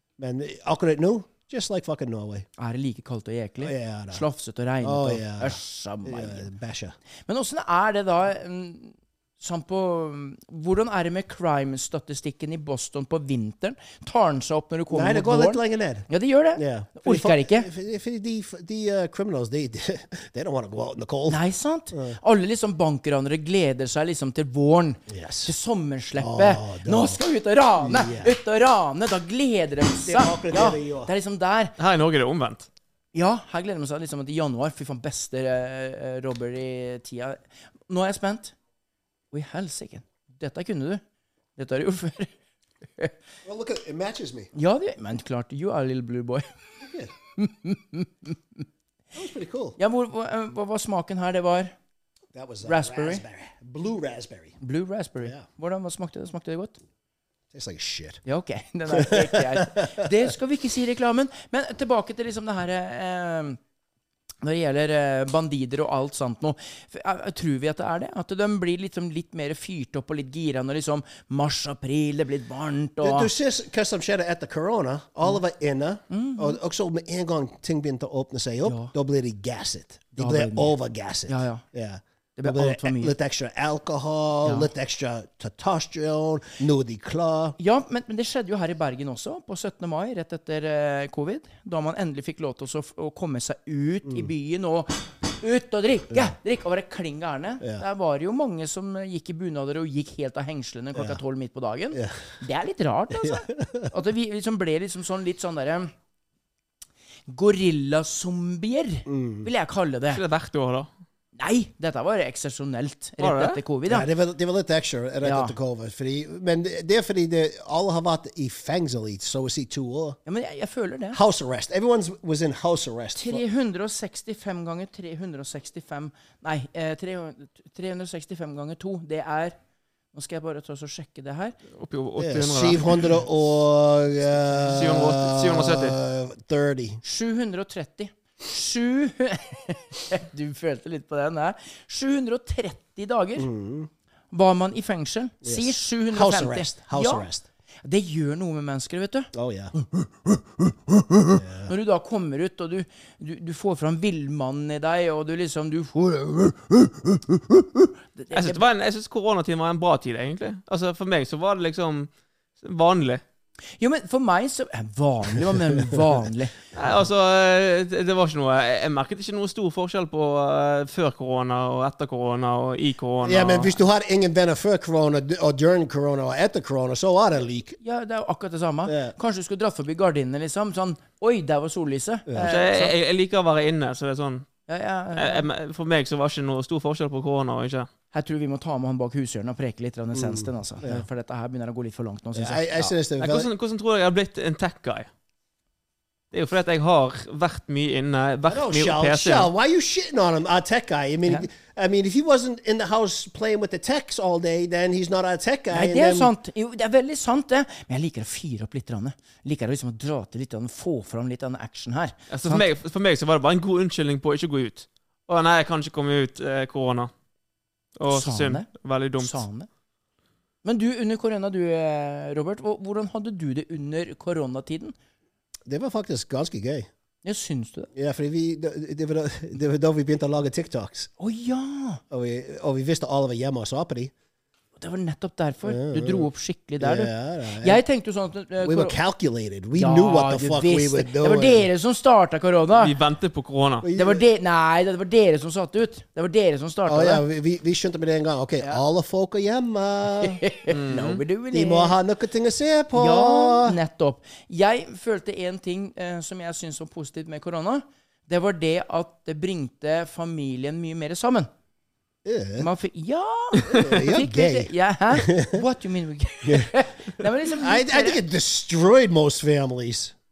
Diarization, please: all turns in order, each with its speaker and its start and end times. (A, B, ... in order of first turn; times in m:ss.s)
0:00.2-0:02.5 A
0:02.6-0:06.5 B
0:03.6-0:04.2 A
0:04.8-0:06.9 A
0:07.3-0:17.7 B
0:14.9-0:22.2 A
0:21.3-0:31.8 B
0:25.1-0:25.5 A
0:26.2-0:27.2 A
0:27.8-0:28.4 A
0:30.0-0:31.1 A
0:31.8-0:32.7 C
0:33.1-0:38.5 B
0:39.3-0:41.0 B
0:41.6-0:42.3 B
0:43.4-0:44.5 A
0:44.5-0:46.5 B
0:47.4-0:48.6 B
0:49.1-0:49.8 A
0:49.8-0:51.7 B
0:52.3-0:54.6 A
0:52.6-0:53.2 B
0:54.6-0:56.8 B
0:57.5-0:58.2 A
0:58.2-1:03.6 B
0:58.9-1:00.1 A
1:04.4-1:13.3 B
1:13.0-1:27.6 A
1:16.1-1:16.6 B
1:18.6-1:18.9 B
1:20.2-1:21.6 B
1:22.4-1:23.1 B
1:24.4-1:24.7 B
1:27.6-1:45.9 B
1:43.2-1:43.9 A
1:47.3-1:50.2 B
1:49.1-1:49.5 A
1:50.1-1:50.9 C
1:51.4-1:54.1 B
1:53.2-1:53.6 C
1:53.9-2:00.2 A
1:55.2-1:55.5 B
2:00.2-2:01.2 B
2:01.1-2:03.4 A
2:03.1-2:09.6 B
2:10.1-2:11.6 B
2:11.7-2:13.1 C
2:12.2-2:17.0 A
2:14.6-2:16.0 C
2:17.0-2:23.5 B
2:23.4-2:23.9 A
2:24.3-2:27.3 B
2:25.4-2:27.4 A
2:27.8-2:29.3 B
2:29.3-2:29.7 A
2:31.3-2:31.7 A
2:31.6-2:36.9 B
2:38.1-2:38.6 B
2:38.3-2:43.2 C
2:43.8-2:46.6 B
2:45.8-2:46.0 A
2:46.7-2:53.8 C
2:53.2-2:57.8 A
2:57.8-3:02.9 B
2:58.9-2:59.1 A
3:02.3-3:02.6 A
3:02.4-3:04.5 C
3:04.7-3:05.4 B
3:05.2-3:07.9 C
3:08.1-3:12.9 B
3:10.1-3:11.0 A
3:12.3-3:13.5 A
3:13.2-3:15.1 C
3:16.3-3:19.5 C
3:18.5-3:26.3 A
3:25.7-3:32.6 B
3:32.3-3:37.1 C
3:38.0-3:39.4 C
3:38.1-3:39.7 B
3:40.6-3:44.9 B
3:45.7-3:46.9 A
3:47.2-3:47.9 B
3:47.9-3:51.1 A
3:51.2-3:52.0 B
3:52.1-3:54.1 A
3:54.8-3:59.0 B
3:55.6-3:56.3 A
3:56.8-3:57.8 A
3:58.6-4:01.7 A
3:59.7-4:03.0 B
4:02.7-4:03.9 C
4:03.8-4:04.2 A
4:03.9-4:07.2 B
4:06.8-4:10.4 A
4:10.2-4:11.9 B
4:10.7-4:11.2 C
4:11.5-4:13.8 A
4:12.9-4:21.5 B
4:22.2-4:22.7 A
4:22.6-4:28.2 B
4:23.7-4:25.6 A
4:26.4-4:26.8 A
4:27.5-4:30.1 A